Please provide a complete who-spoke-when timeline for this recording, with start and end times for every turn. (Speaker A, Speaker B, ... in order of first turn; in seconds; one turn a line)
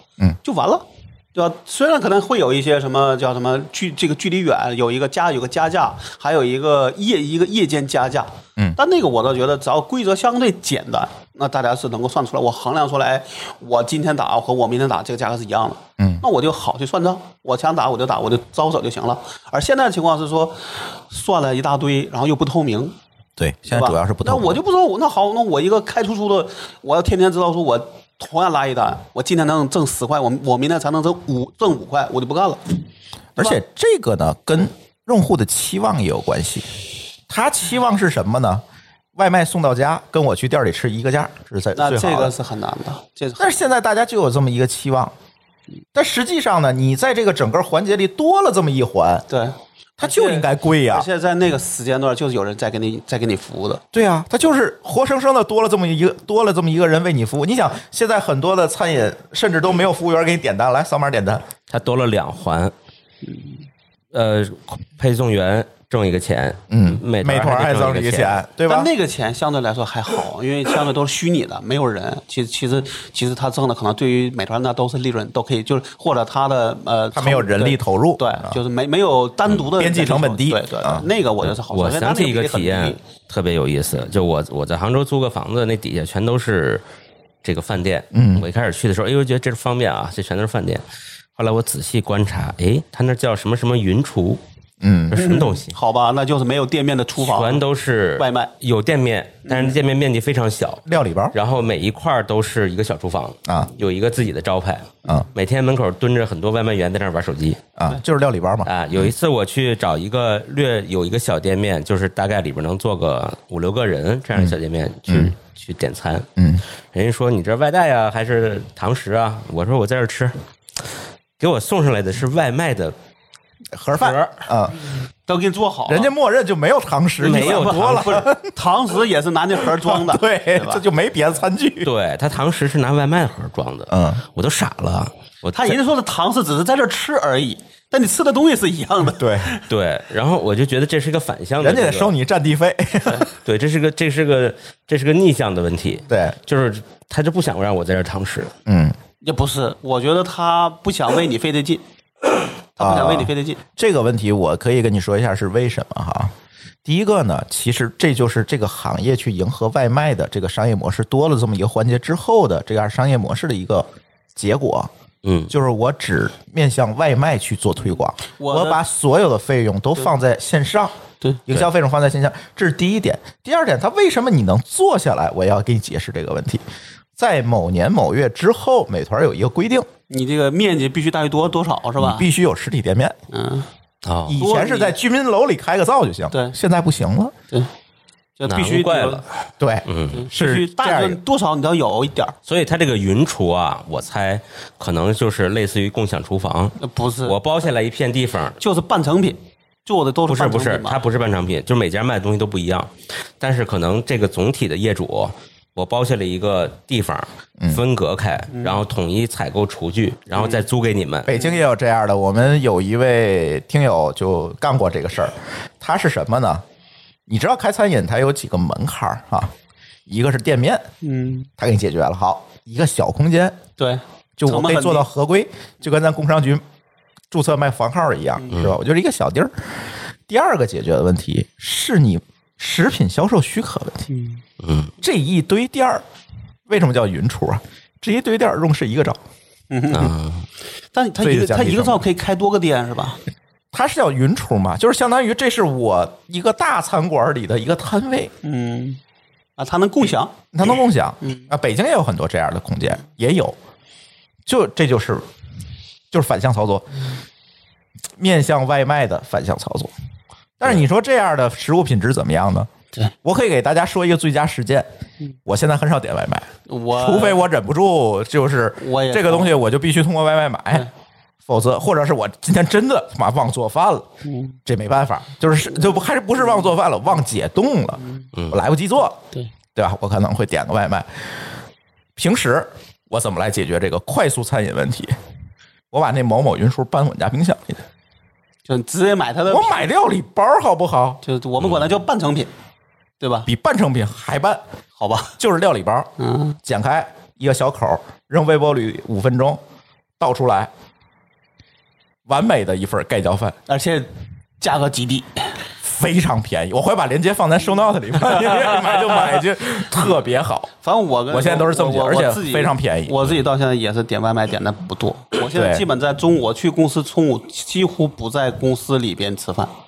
Speaker A: 0.4-22.9
Speaker B: 23.4-24.6
Speaker A: 23.6-32.6
Speaker B: 33.4-36.7
Speaker B: 37.3-38.6
Speaker B: 39.1-42.3
Speaker A: 41.7-43.6
Speaker B: 43.4-45.1
Speaker B: 45.9-49.2
Speaker A: 49.3-53.8
Speaker B: 50.0-51.1
Speaker B: 53.9-61.4
Speaker C: 61.7-62.7
Speaker C: 64.1-68.4
Speaker B: 66.7-68.9
Speaker A: 68.7-83.0
Speaker B: 77.1-78.6
Speaker B: 79.6-81.1
Speaker C: 81.4-86.8
Speaker C: 87.4-90.8
Speaker B: 88.1-88.5
Speaker C: 91.3-94.4
Speaker B: 94.8-95.2
Speaker C: 95.1-95.8
Speaker A: 95.1-97.6
Speaker C: 97.2-107.6
Speaker A: 98.2-98.5
Speaker A: 99.4-99.8
Speaker B: 100.8-101.3
Speaker B: 103.5-103.7
Speaker B: 107.8-109.1
Speaker C: 108.7-116.3
Speaker B: 115.1-115.3
Speaker B: 116.4-116.6
Speaker C: 116.9-120.4
Speaker C: 121.4-122.9
Speaker B: 123.7-124.9
Speaker C: 124.0-124.4
Speaker A: 125.2-126.1
Speaker B: 125.9-128.5
Speaker A: 127.2-130.8
Speaker C: 127.2-128.2
Speaker B: 129.6-131.9
Speaker C: 131.8-135.8
Speaker B: 133.9-134.2
Speaker A: 135.5-139.6
Speaker B: 139.1-139.5
Speaker C: 139.7-142.1
Speaker B: 141.6-143.3
Speaker C: 143.2-148.5
Speaker B: 146.1-146.3
Speaker B: 148.7-148.9
Speaker A: 149.2-151.8
Speaker A: 152.8-153.6
Speaker B: 152.8-156.3
Speaker B: 156.8-164.9
Speaker C: 165.2-165.5
Speaker B: 165.5-170.9
Speaker A: 168.2-168.8
Speaker B: 171.5-176.6
Speaker B: 177.2-179.9
Speaker A: 180.1-182.3
Speaker B: 182.0-183.2
Speaker A: 183.3-183.7
Speaker C: 184.0-184.4
Speaker B: 184.3-187.3
Speaker A: 184.3-185.0
Speaker A: 188.4-189.2
Speaker C: 188.5-189.2
Speaker B: 189.6-191.2
Speaker C: 189.8-190.2
Speaker A: 190.1-192.3
Speaker C: 192.4-198.6
Speaker A: 196.8-197.3
Speaker A: 198.6-201.0
Speaker C: 200.3-211.3
Speaker A: 208.5-208.8
Speaker B: 211.2-216.6
Speaker B: 217.3-219.5
Speaker B: 220.1-220.8
Speaker A: 221.0-221.5
Speaker B: 221.6-223.6
Speaker A: 223.8-225.1
Speaker B: 224.4-226.6
Speaker B: 227.3-234.0
Speaker A: 228.4-228.7
Speaker A: 234.1-234.4
Speaker C: 234.6-234.9
Speaker B: 235.0-236.0
Speaker B: 236.7-239.2
Speaker A: 239.7-240.1
Speaker C: 239.9-240.4
Speaker A: 240.9-243.2
Speaker B: 241.2-242.1
Speaker B: 243.7-248.3
Speaker A: 248.4-249.0
Speaker A: 249.6-250.4
Speaker B: 250.5-253.6
Speaker B: 254.4-255.2
Speaker B: 256.1-256.9
Speaker B: 258.2-259.9
Speaker B: 260.6-262.7
Speaker B: 263.2-264.9
Speaker B: 265.4-270.9
Speaker A: 266.7-267.4
Speaker A: 268.8-269.5
Speaker B: 271.4-274.1
Speaker A: 274.2-274.6
Speaker B: 274.6-279.2
Speaker B: 279.7-281.1
Speaker B: 282.2-285.1
Speaker B: 285.9-287.8
Speaker A: 288.6-289.9
Speaker B: 289.5-291.2
Speaker A: 291.2-292.5
Speaker A: 293.2-293.5
Speaker B: 293.5-294.6
Speaker A: 295.0-295.3
Speaker B: 295.4-296.1
Speaker A: 296.2-296.6
Speaker B: 296.6-299.6
Speaker B: 300.2-300.7
Speaker B: 302.3-303.6
Speaker A: 303.7-304.1
Speaker A: 304.6-305.5
Speaker B: 305.8-310.7
Speaker A: 308.3-309.1
Speaker A: 310.8-319.7
Speaker B: 311.3-313.3
Speaker B: 315.5-315.8